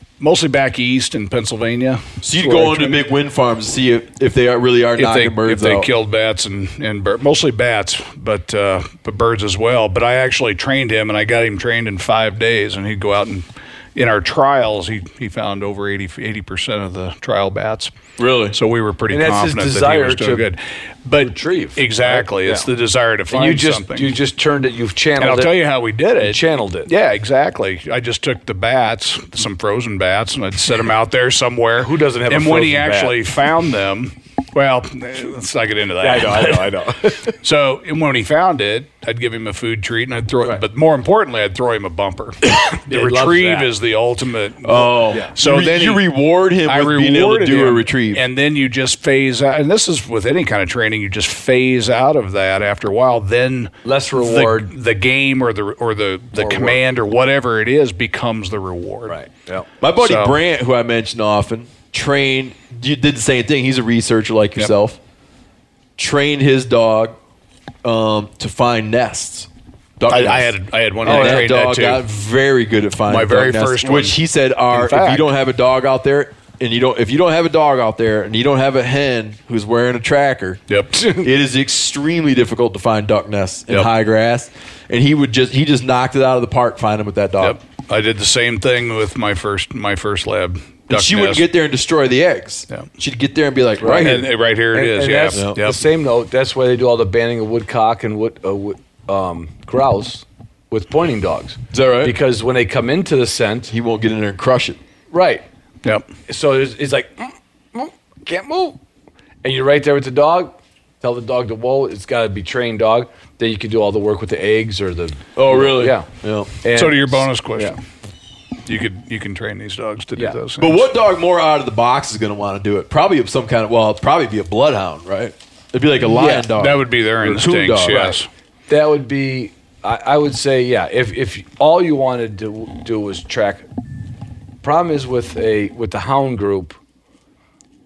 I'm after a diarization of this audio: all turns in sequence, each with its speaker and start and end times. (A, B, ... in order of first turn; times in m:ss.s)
0:00.2-0:03.0 A
0:02.2-0:05.9 B
0:05.0-0:17.9 A
0:18.2-0:18.6 B
0:18.5-0:24.2 A
0:19.1-0:20.5 C
0:21.2-0:22.7 C
0:23.3-0:25.6 C
0:25.2-0:36.7 A
0:26.2-0:26.9 C
0:31.8-0:33.2 C
0:36.0-0:37.3 C
0:37.3-0:46.0 A
0:42.7-0:43.7 C
0:44.6-0:48.3 B
0:46.7-0:59.2 A
0:53.8-0:54.7 C
0:56.3-0:56.8 C
0:59.1-0:59.7 C
0:59.8-1:05.0 B
1:00.0-1:00.4 A
1:06.0-1:07.2 B
1:07.8-1:27.6 B
1:10.1-1:12.0 A
1:11.0-1:11.5 C
1:13.1-1:14.2 A
1:14.7-1:15.2 A
1:20.7-1:21.1 A
1:27.4-1:31.4 A
1:30.9-1:34.3 B
1:33.8-1:43.7 C
1:34.0-1:35.8 A
1:35.3-1:35.6 B
1:41.7-1:42.2 B
1:43.7-1:44.8 B
1:45.1-1:45.4 C
1:46.3-1:48.8 C
1:49.4-1:57.8 C
1:55.4-1:56.5 B
1:56.8-1:57.8 A
1:58.7-2:00.8 A
2:00.2-2:00.4 C
2:00.6-2:08.1 B
2:06.0-2:06.5 C
2:06.5-2:08.3 A
2:07.9-2:13.6 C
2:14.6-2:16.8 C